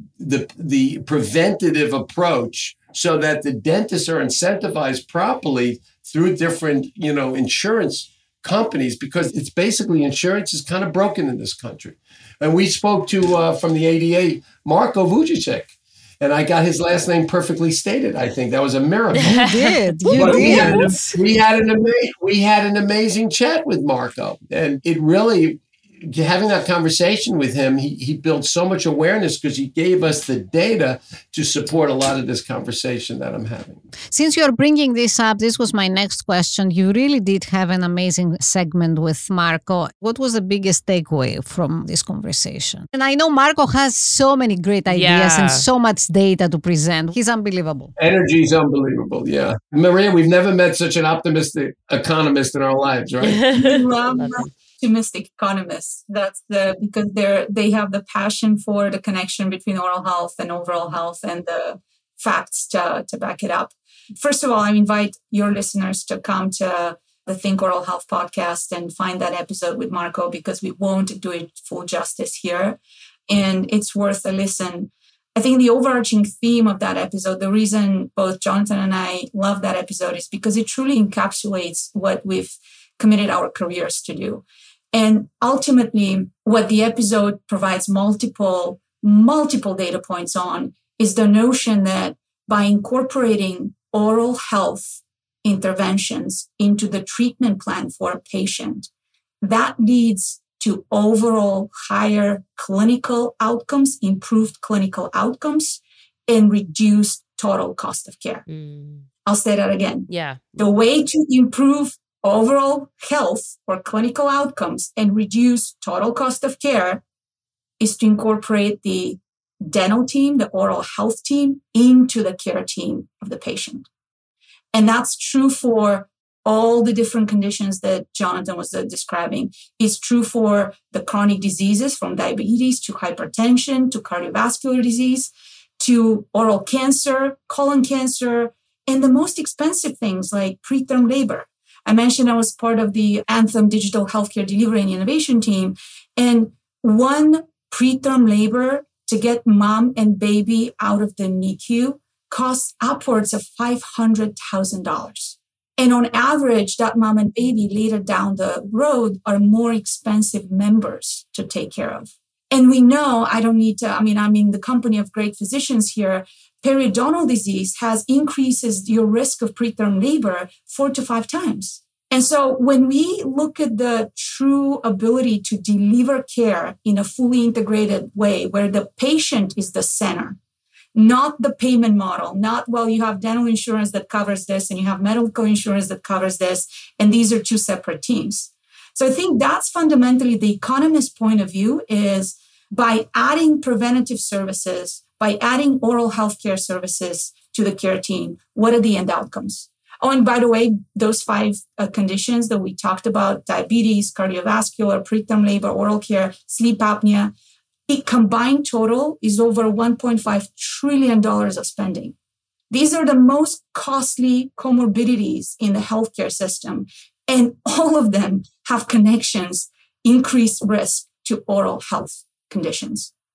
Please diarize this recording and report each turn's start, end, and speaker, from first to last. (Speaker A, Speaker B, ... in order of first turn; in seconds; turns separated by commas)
Speaker A: 0.2-19.5, Speaker B: 19.3-20.7, Speaker C: 19.4-21.2, Speaker A: 20.1-33.8, Speaker C: 34.1-47.9, Speaker B: 44.9-45.6, Speaker A: 48.0-53.5, Speaker B: 53.2-54.5, Speaker D: 53.5-98.9, Speaker D: 99.4-108.4, Speaker B: 108.5-109.1, Speaker D: 109.2-117.0, Speaker B: 110.1-110.4, Speaker D: 117.8-123.9, Speaker D: 124.7-180.4, Speaker D: 180.9-207.3, Speaker D: 207.9-212.1, Speaker D: 212.7-223.1